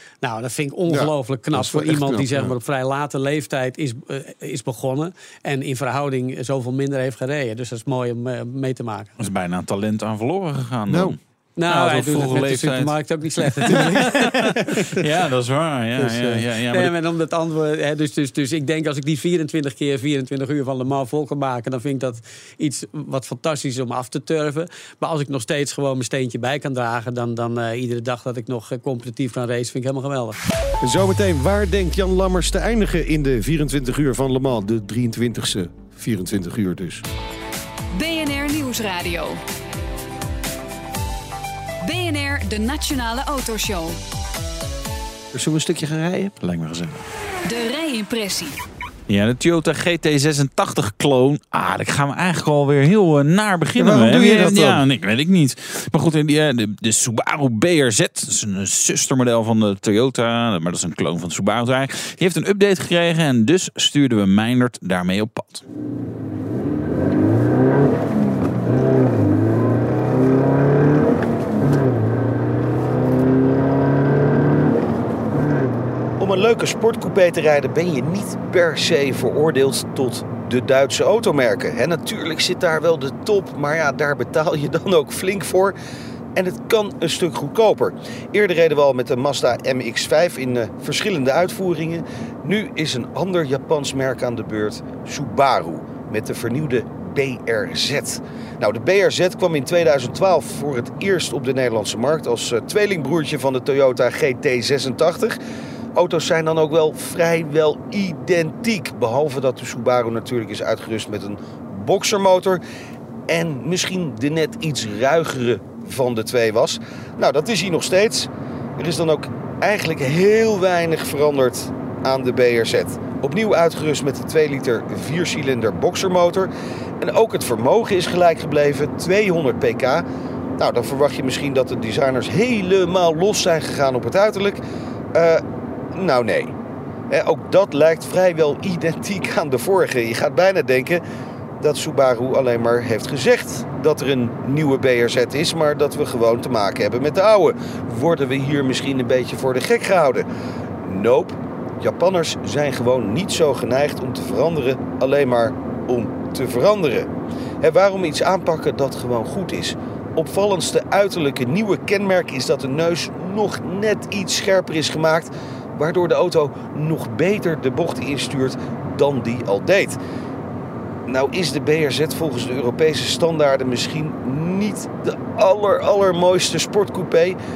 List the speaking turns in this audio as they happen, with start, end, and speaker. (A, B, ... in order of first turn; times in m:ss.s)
0:00.2-0:09.1 A
0:00.9-0:02.5 B
0:09.2-0:17.0 C
0:10.9-0:11.2 B
0:11.6-0:14.6 A
0:16.0-0:16.4 B
0:16.7-0:30.4 A
0:30.8-0:37.0 B
0:37.9-0:39.4 D
0:41.8-0:44.0 D
0:45.3-0:46.3 B
0:46.4-0:47.0 C
0:47.5-0:48.6 D
0:49.1-1:05.6 C
0:53.8-0:54.8 B
1:16.2-1:25.8 B
1:26.4-1:45.4 B
1:46.0-1:52.6 B
1:53.3-2:10.0 B
2:10.6-2:14.6 B
2:15.1-2:16.5 B
2:17.1-2:21.0 B
2:21.6-2:30.3 B
2:30.8-2:37.1 B
2:37.6-2:50.0 B
2:51.1-2:57.4 B